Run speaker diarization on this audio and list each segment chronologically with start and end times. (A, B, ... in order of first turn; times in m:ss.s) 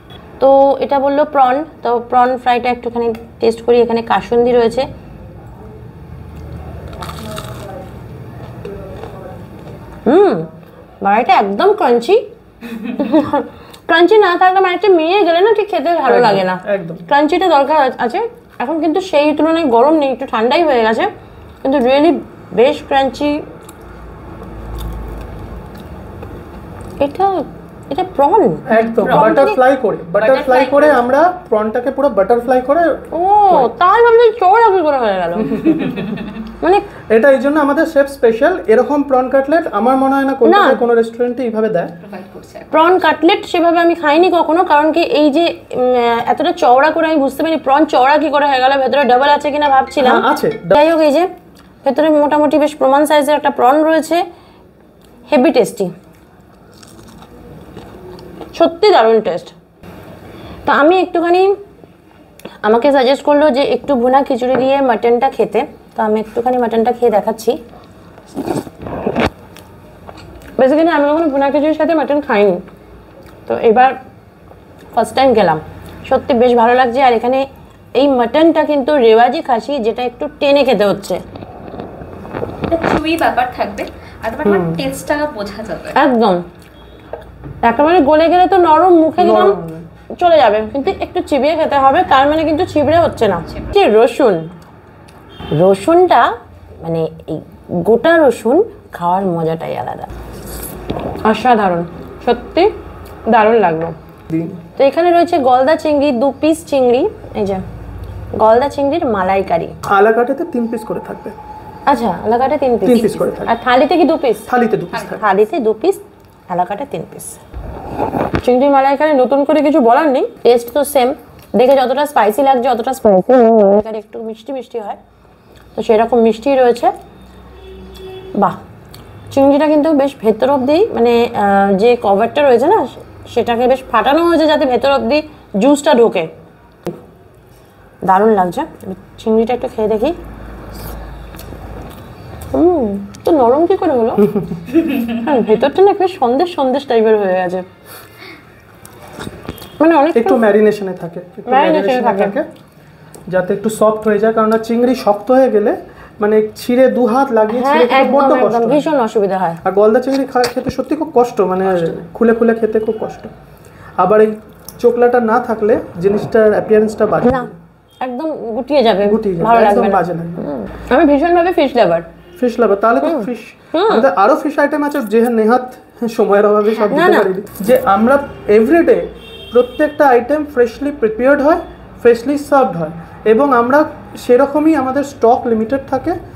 0:00.4-0:04.9 A
0:10.0-0:10.5 A
0:11.0-0:12.2 A
0:12.8-0:21.1 A
0:16.0-0:17.0 B
0:21.6-0:23.4 A
0:27.0-0:29.6 A
0:28.6-0:33.7 B
0:28.7-0:29.4 C
0:30.2-0:31.0 C
0:33.1-0:35.8 A
0:35.5-0:36.0 B
0:37.1-0:41.9 B
0:40.4-0:40.8 A
0:42.0-0:42.7 C
0:42.7-0:51.3 A
0:50.0-0:50.8 B
0:51.8-0:54.2 A
0:55.3-0:55.9 A
0:58.5-0:59.5 A
1:00.6-1:01.5 A
1:02.6-1:07.6 A
1:10.6-1:12.6 A
1:13.4-1:13.9 A
1:14.9-1:17.4 A
1:18.0-1:21.2 A
1:22.7-1:26.0 C
1:24.4-1:24.8 B
1:25.9-1:26.4 A
1:27.6-1:29.6 A
1:29.2-1:29.8 B
1:30.2-1:34.5 A
1:35.5-1:36.3 A
1:36.8-1:40.1 A
1:41.2-1:42.7 A
1:43.3-1:43.9 A
1:44.3-1:44.6 B
1:44.8-1:47.6 A
1:48.4-1:49.7 A
1:49.8-1:51.3 B
1:51.9-1:54.5 A
1:52.8-1:53.5 B
1:54.5-1:55.2 B
1:54.9-1:55.2 C
1:55.2-1:57.4 A
1:58.4-2:05.0 A
2:05.8-2:06.9 A
2:09.3-2:16.3 A
2:18.0-2:20.2 A
2:22.5-2:24.3 A
2:25.0-2:27.6 A
2:29.8-2:30.4 A
2:30.1-2:32.4 B
2:31.5-2:32.4 A
2:33.3-2:38.9 B
2:37.5-2:39.6 A
2:39.6-2:43.3 B
2:44.0-2:47.6 B
2:47.2-2:47.5 A
2:48.0-2:52.1 A
2:49.0-2:50.4 B
2:52.4-3:06.1 B
2:53.0-2:54.1 A
2:56.9-2:57.3 A